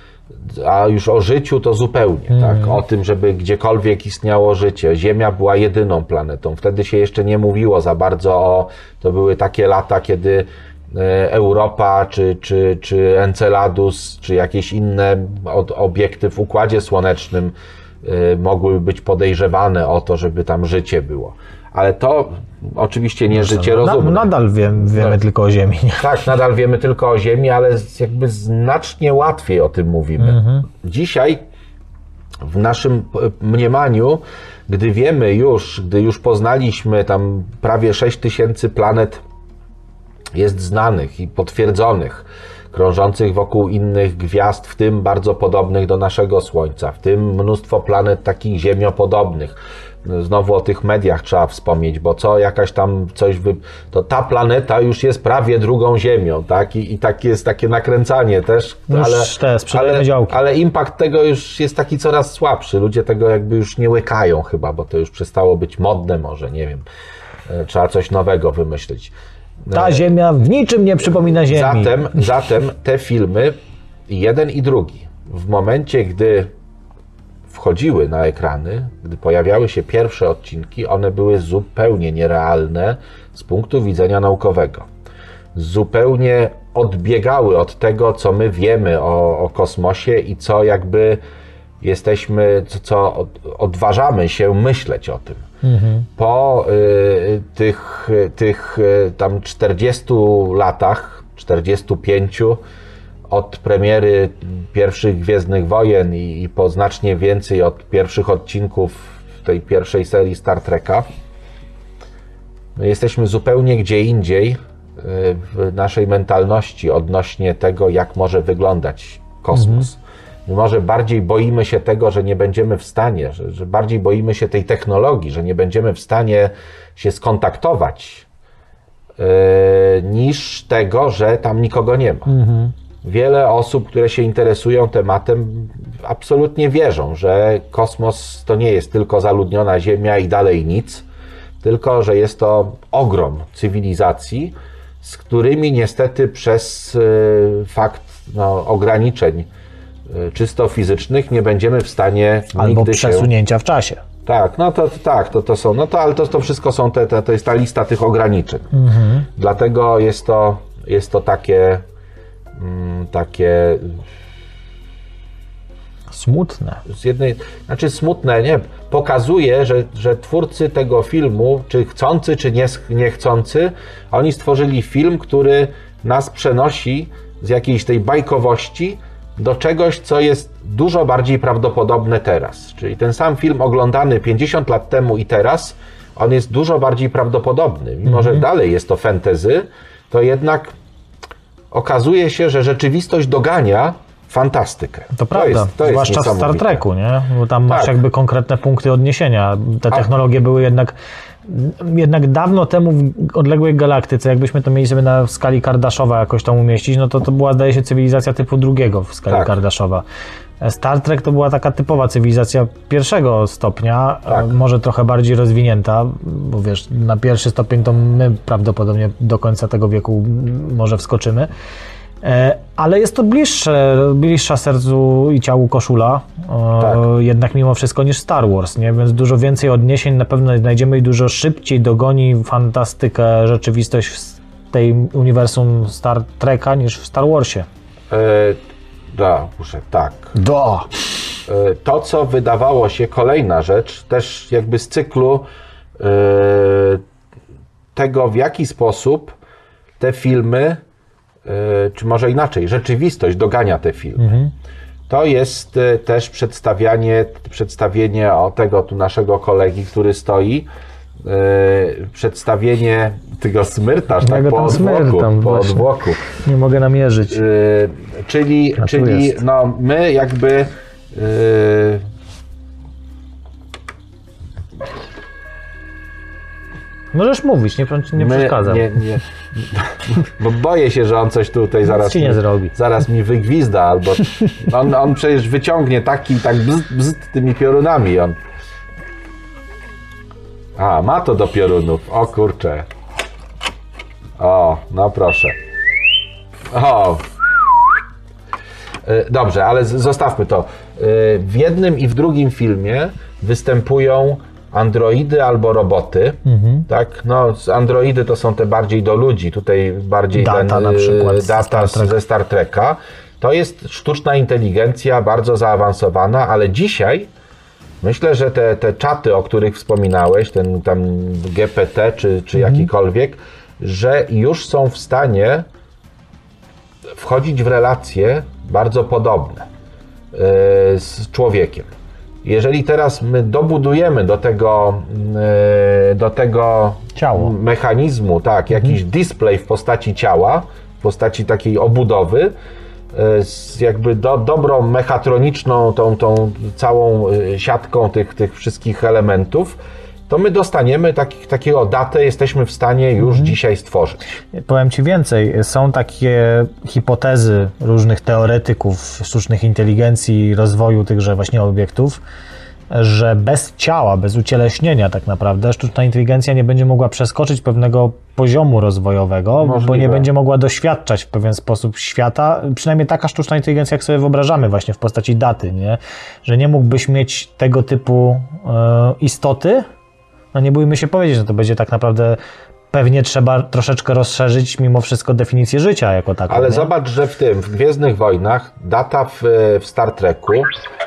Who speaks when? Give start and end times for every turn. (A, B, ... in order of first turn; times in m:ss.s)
0:00.4-0:24.3 A
0:02.3-0:02.8 B
0:23.3-0:26.1 B
0:26.0-0:31.4 A
0:30.2-0:30.7 B
0:32.4-0:39.2 A
0:40.3-1:06.8 A
0:58.9-1:00.4 B
1:07.5-1:09.1 A
1:09.6-1:10.0 A
1:09.7-1:12.1 B
1:11.5-1:13.6 A
1:14.1-1:16.5 A
1:17.5-1:24.9 A
1:25.5-1:31.2 A
1:31.8-1:35.4 A
1:35.6-1:36.1 B
1:36.2-1:42.6 A
1:43.3-1:51.0 A
1:52.8-2:08.3 A
1:59.5-1:59.9 B
2:09.2-2:12.3 A
2:12.3-2:12.7 B
2:13.0-2:21.0 A
2:21.6-2:29.5 A
2:30.1-2:33.3 A
2:32.5-2:34.0 B
2:34.2-2:38.7 A
2:38.7-2:39.3 B
2:39.4-2:41.8 A
2:42.5-2:44.0 A
2:46.1-2:46.8 B
2:46.8-3:10.7 A
3:08.0-3:08.4 B
3:11.7-3:16.8 A
3:15.1-3:20.9 B
3:17.7-3:18.0 A
3:21.4-3:30.0 B
3:30.6-3:41.5 B
3:42.2-3:57.7 B
3:58.1-3:58.6 A
3:59.1-4:00.3 A
4:00.3-4:00.9 B
4:01.5-4:05.5 A
4:06.0-4:07.0 A
4:07.9-4:09.4 A
4:10.0-4:10.8 A
4:11.4-4:14.4 A
4:14.2-4:14.5 B
4:15.1-4:20.7 A
4:21.2-4:26.2 A
4:24.2-4:27.4 B
4:27.3-4:32.0 A
4:28.8-4:29.4 B
4:37.1-4:39.0 B
4:38.2-4:48.4 A
4:41.8-4:42.7 B
4:50.8-4:52.9 A
4:54.4-4:55.6 A
4:56.7-4:57.3 A
4:59.0-5:17.3 A
5:06.4-5:06.9 B
5:10.3-5:12.1 B
5:18.0-5:25.6 A
5:22.6-5:22.9 B
5:27.1-5:29.7 A
5:30.3-5:31.9 A
5:32.4-5:42.5 A
5:37.1-5:37.5 B
5:38.7-5:39.0 B
5:43.1-5:54.2 A
5:53.2-5:53.6 B
5:54.6-6:02.2 B
6:02.9-6:19.8 B
6:09.6-6:10.3 A
6:20.5-6:22.4 B
6:22.9-6:26.9 B
6:26.5-6:30.7 A